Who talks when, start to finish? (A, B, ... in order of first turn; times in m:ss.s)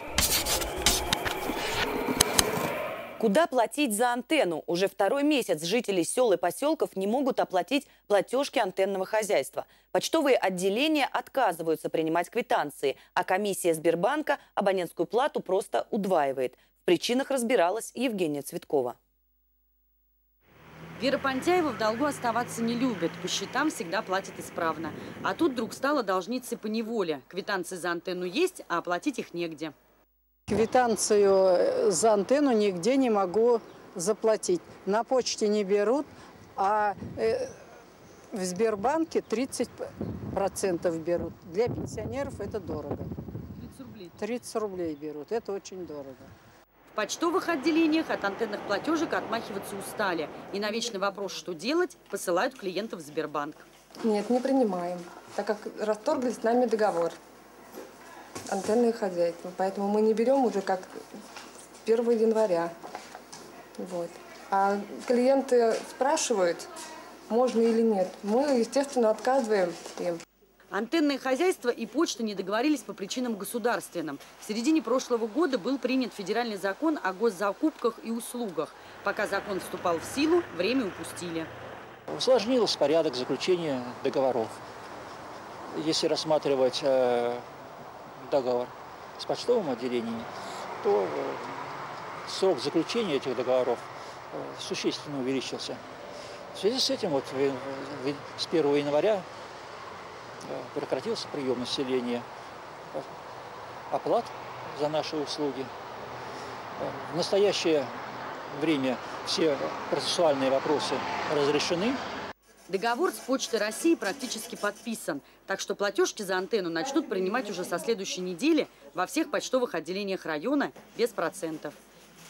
0:03.2-0:19.0 A
0:21.0-0:29.7 B
0:30.5-0:37.6 C
0:38.3-0:43.1 C
0:43.6-0:44.2 B
0:44.2-0:46.3 C
0:46.9-0:53.7 B
0:54.0-0:57.2 D
0:58.5-1:00.9 D
1:01.8-1:02.7 D
1:03.8-1:06.7 D
1:07.3-1:10.2 D
1:10.7-1:21.5 B
1:22.1-1:24.6 E
1:25.7-1:27.5 E
1:28.2-1:30.3 E
1:30.8-1:35.8 E
1:36.5-1:39.3 E
1:40.4-1:42.3 E
1:43.9-1:45.7 E
1:46.8-1:48.0 E
1:48.5-1:52.0 E
1:52.7-2:01.8 B